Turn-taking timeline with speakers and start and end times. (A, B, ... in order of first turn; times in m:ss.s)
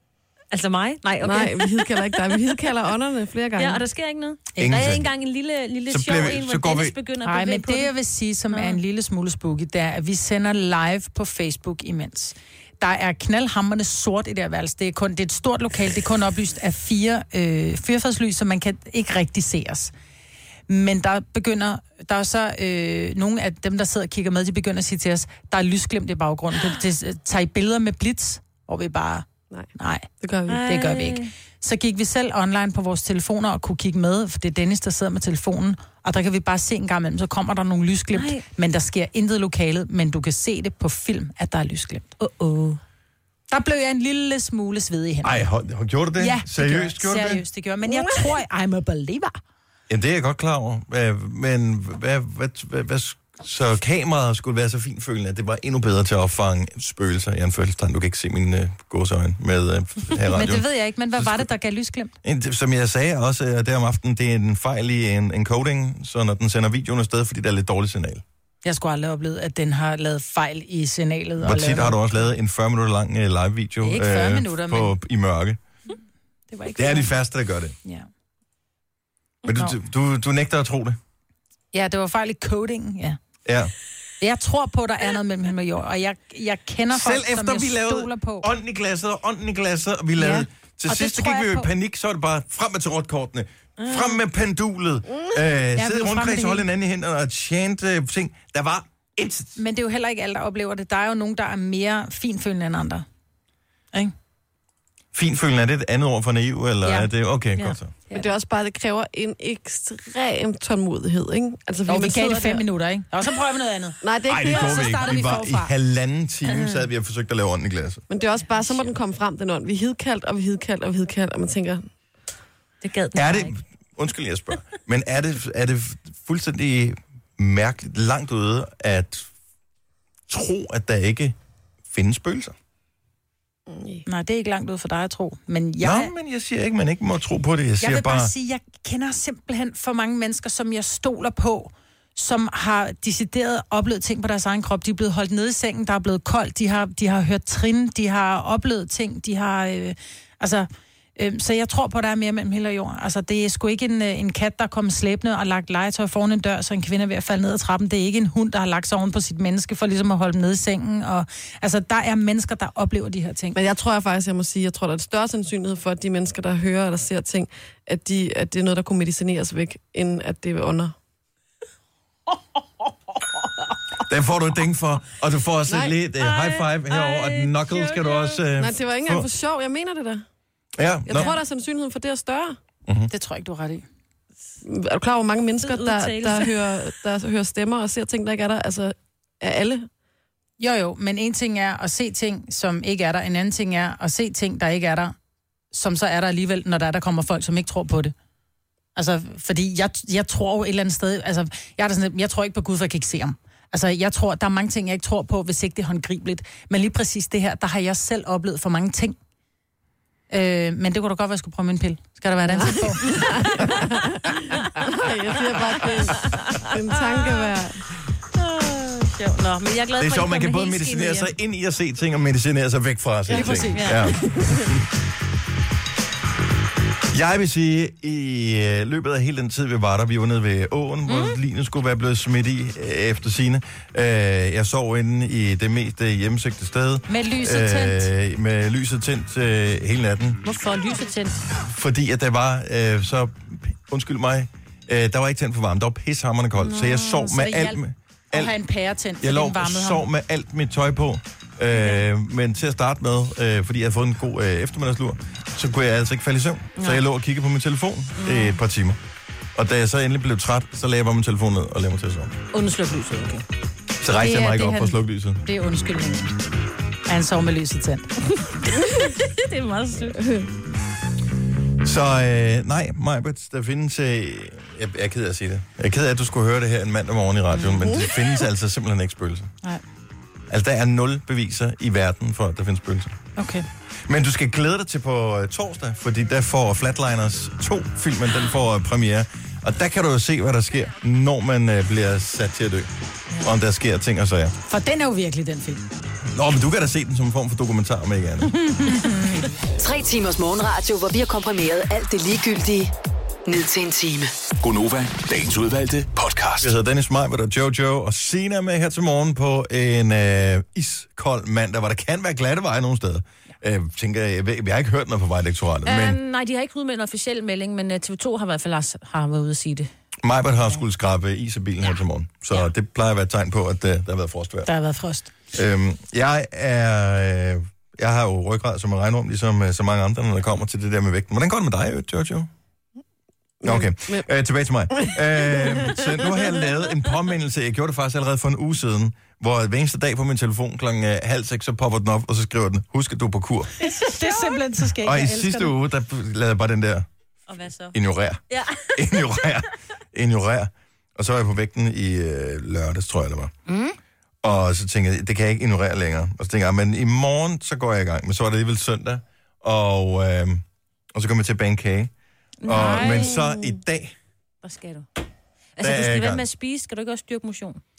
0:00.5-0:02.1 A
0:01.2-0:03.8 B
0:03.6-0:07.9 A
0:04.5-0:05.0 C
0:04.6-0:05.1 D
0:05.9-0:06.9 D
0:07.2-0:19.9 C
0:08.5-0:08.8 A
0:20.7-0:30.1 C
0:30.2-0:30.6 B
0:30.5-0:31.3 A
0:30.6-0:42.1 C
0:38.1-0:38.4 A
0:42.2-0:42.8 A
0:43.5-0:45.4 C
0:45.2-0:47.4 D
0:46.2-0:49.4 C
0:49.9-1:00.6 D
1:00.3-1:02.1 C
1:01.2-1:01.5 D
1:02.2-1:08.2 D
1:08.6-1:12.2 C
1:11.4-1:15.6 D
1:13.8-1:14.9 C
1:16.5-1:17.1 C
1:16.8-1:17.7 D
1:19.4-1:21.0 D
1:19.5-1:19.8 C
1:21.7-1:23.2 C
1:23.4-1:23.7 D
1:24.2-1:28.5 C
1:26.9-1:39.6 D
1:30.2-1:31.7 C
1:33.8-1:34.2 A
1:35.8-1:36.6 C
1:39.6-1:43.0 C
1:45.1-1:47.9 D
1:46.8-1:47.1 C
1:48.1-1:52.6 B
1:51.9-1:55.7 C
1:54.0-1:55.0 B
1:54.3-1:58.0 D
1:58.1-2:01.8 B
2:02.8-2:03.5 A
2:03.1-2:09.3 D
2:10.3-2:11.4 D
2:11.9-2:12.5 D
2:13.7-2:14.0 B
2:14.0-2:16.1 C
2:15.8-2:18.3 D
2:17.8-2:43.6 C
2:43.5-2:50.9 B
2:54.0-2:59.3 D
2:55.7-2:55.9 B
2:56.2-2:58.4 A
2:58.6-3:00.2 B
3:00.8-3:01.3 D
3:01.0-3:02.6 B
3:02.8-3:03.1 D
3:03.1-3:03.8 C
3:04.6-3:09.9 B
3:05.6-3:06.8 A
3:10.6-3:15.1 C
3:15.7-3:18.1 C
3:18.9-3:29.2 C
3:30.3-3:33.3 C
3:32.5-3:37.8 B
3:33.2-3:33.5 A
3:36.1-3:37.5 A
3:38.3-3:41.3 A
3:40.0-3:44.8 D
3:43.3-3:43.9 C
3:43.4-3:44.2 A
3:44.3-3:44.7 B
3:47.1-4:00.4 D
3:51.0-3:51.4 A
3:57.1-3:58.1 C
4:00.4-4:01.4 A
4:01.6-4:08.5 D
4:06.6-4:07.4 A
4:07.3-4:07.8 C
4:08.3-4:10.0 C
4:09.2-4:19.0 D
4:11.7-4:12.0 A
4:16.8-4:17.0 A
4:18.2-4:18.6 A
4:19.5-4:22.4 D
4:22.5-4:23.4 A
4:24.0-4:25.4 D
4:24.1-4:26.3 C
4:27.1-4:28.1 C
4:28.3-4:30.4 A
4:30.2-4:30.5 B
4:31.8-4:39.5 D
4:37.5-4:38.2 A
4:40.5-4:43.2 D
4:43.4-4:43.6 C
4:44.1-4:52.9 D
4:53.4-4:54.5 D
4:54.7-4:55.8 C
4:56.3-4:58.6 D
4:58.6-4:59.5 C
4:59.8-5:02.9 E
5:03.4-5:04.3 E
5:04.6-5:06.7 F
5:06.6-5:16.2 D
5:15.8-5:19.9 A
5:20.2-5:24.7 D
5:24.6-5:25.3 C
5:25.5-5:32.5 D
5:33.6-5:34.2 B
5:33.6-5:43.7 D
5:35.0-5:36.5 B
5:43.8-5:45.7 C
5:43.8-5:44.6 A
5:45.0-5:47.1 D
5:47.5-5:48.0 A
5:47.9-5:53.5 D
5:48.5-5:49.5 A
5:53.7-5:54.0 A
5:54.4-6:00.6 D
6:01.1-6:02.1 D
6:02.6-6:03.4 A
6:02.6-6:04.1 D
6:02.8-6:03.1 C
6:04.6-6:05.0 A
6:05.8-6:07.8 A
6:05.8-6:06.4 D